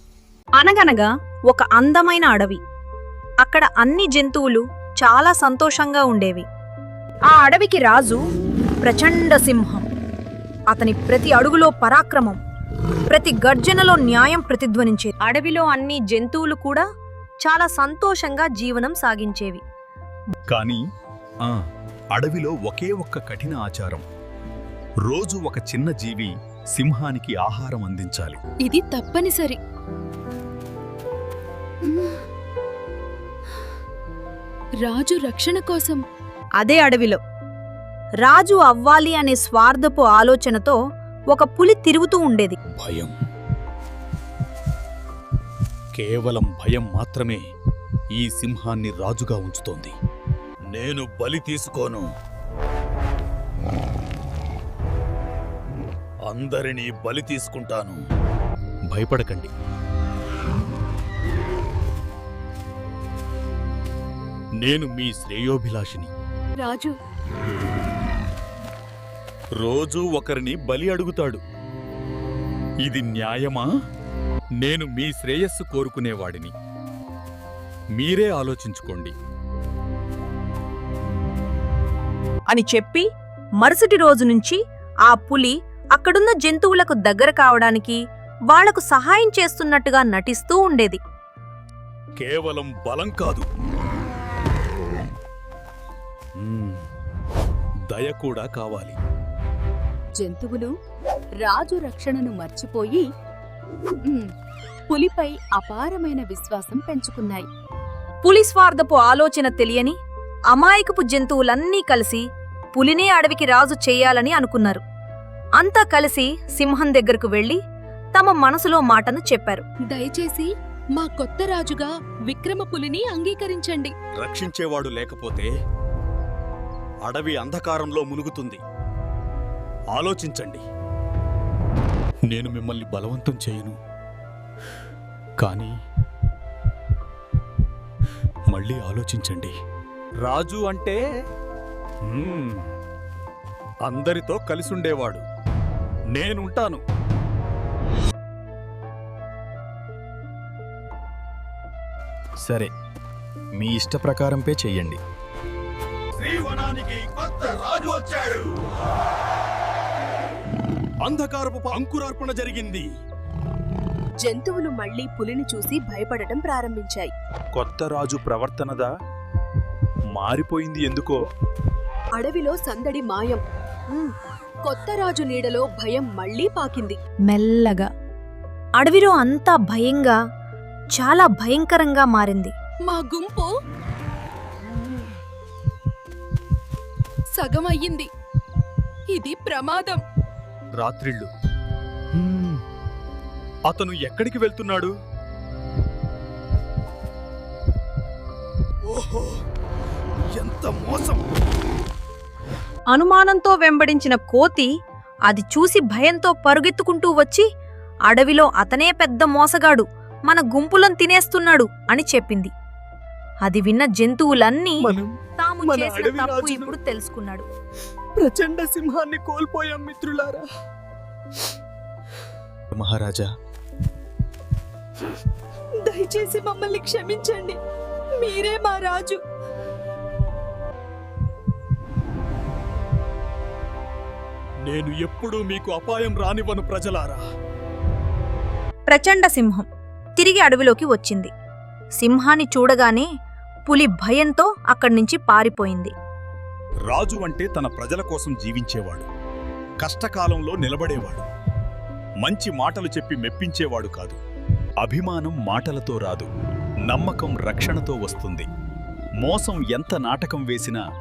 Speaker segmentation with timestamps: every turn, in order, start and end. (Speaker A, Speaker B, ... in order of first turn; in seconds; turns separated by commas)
Speaker A: 0.6-2.6, Speaker A: 3.4-6.5, Speaker A: 7.3-8.2, Speaker A: 8.8-9.9, Speaker A: 10.7-12.4, Speaker A: 13.1-16.8, Speaker A: 17.4-19.6, Speaker B: 20.5-20.8, Speaker B: 22.1-24.0, Speaker B: 25.1-28.4, Speaker C: 28.6-29.6, Speaker C: 31.8-32.2, Speaker C: 34.8-36.0, Speaker A: 36.6-37.2, Speaker A: 38.2-40.8, Speaker A: 41.3-42.6, Speaker B: 42.7-43.1, Speaker B: 46.0-47.4, Speaker B: 48.2-49.9, Speaker B: 50.7-52.1, Speaker B: 56.3-58.0, Speaker B: 58.9-59.5, Speaker B: 64.6-66.1, Speaker C: 66.6-66.9, Speaker B: 69.6-71.4, Speaker B: 72.8-73.7, Speaker B: 74.6-76.5, Speaker B: 78.0-79.1, Speaker A: 82.5-83.1, Speaker A: 83.6-91.0, Speaker B: 92.2-93.5, Speaker B: 96.4-96.8, Speaker B: 97.9-99.0, Speaker C: 100.2-100.7, Speaker C: 101.4-103.1, Speaker C: 104.9-107.5, Speaker A: 108.2-110.0, Speaker A: 110.5-114.8, Speaker A: 115.6-117.6, Speaker A: 118.2-119.7, Speaker C: 119.9-123.9, Speaker B: 124.2-125.5, Speaker B: 127.0-128.6, Speaker B: 129.9-130.6, Speaker B: 132.3-133.8, Speaker B: 135.4-135.7, Speaker B: 138.5-139.5, Speaker B: 140.2-141.0, Speaker B: 142.1-142.7, Speaker B: 143.8-145.2, Speaker B: 146.1-146.8, Speaker B: 152.4-152.7, Speaker B: 153.6-155.0, Speaker B: 156.2-158.5, Speaker B: 161.0-162.9, Speaker C: 164.2-167.1, Speaker B: 167.6-168.9, Speaker B: 170.1-171.2, Speaker C: 172.2-173.4, Speaker C: 174.7-177.0, Speaker A: 177.3-177.9, Speaker A: 178.8-180.2, Speaker A: 180.9-182.5, Speaker C: 182.8-183.5, Speaker C: 187.3-188.1, Speaker C: 189.1-190.0, Speaker B: 190.8-191.3, Speaker B: 192.2-192.6, Speaker B: 193.7-194.9, Speaker B: 198.9-199.4, Speaker B: 200.3-201.2, Speaker A: 202.9-204.7, Speaker A: 205.3-207.5, Speaker A: 208.1-212.5, Speaker A: 213.4-214.8, Speaker B: 214.8-215.1, Speaker A: 215.4-217.5, Speaker B: 215.6-216.7, Speaker B: 218.3-220.4, Speaker B: 222.7-223.3, Speaker C: 225.8-227.6, Speaker C: 228.2-229.2, Speaker B: 234.6-237.2, Speaker A: 238.9-241.3, Speaker A: 242.0-243.1, Speaker A: 243.7-245.9, Speaker B: 246.9-249.1, Speaker B: 249.8-251.2, Speaker B: 252.2-254.2, Speaker B: 254.8-256.3, Speaker B: 256.9-258.5, Speaker B: 259.2-260.8